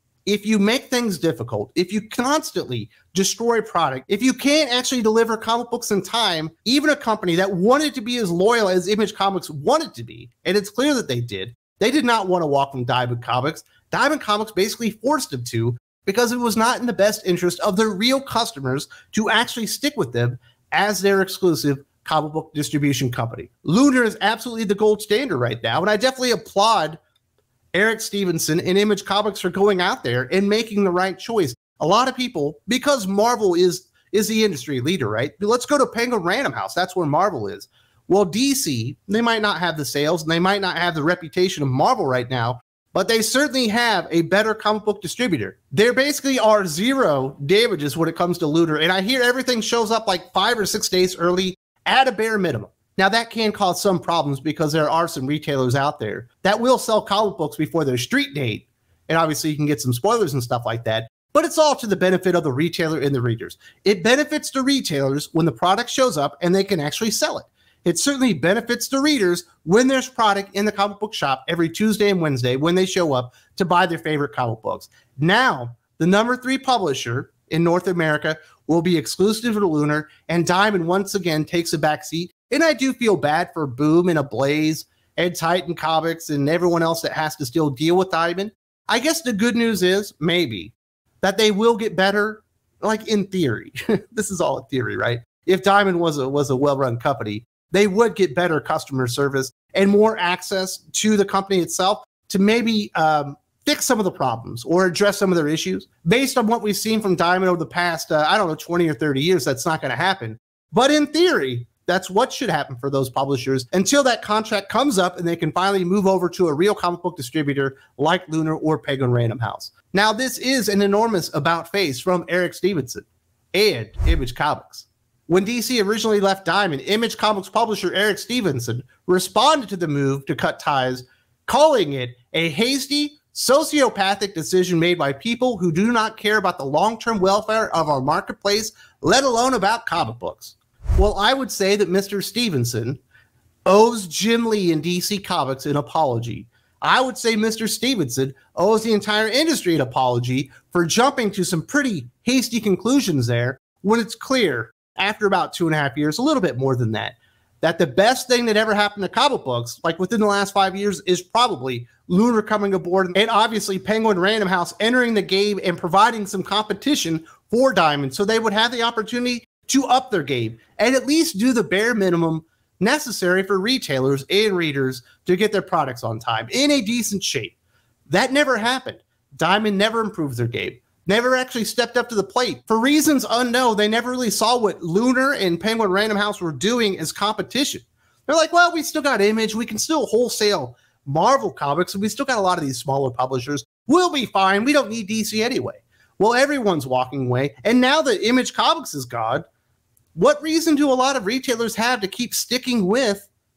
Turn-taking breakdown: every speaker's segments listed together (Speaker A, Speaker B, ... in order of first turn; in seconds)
Speaker A: 0.2-27.0, 27.7-143.0, 143.7-177.5, 178.1-199.4, 200.1-203.3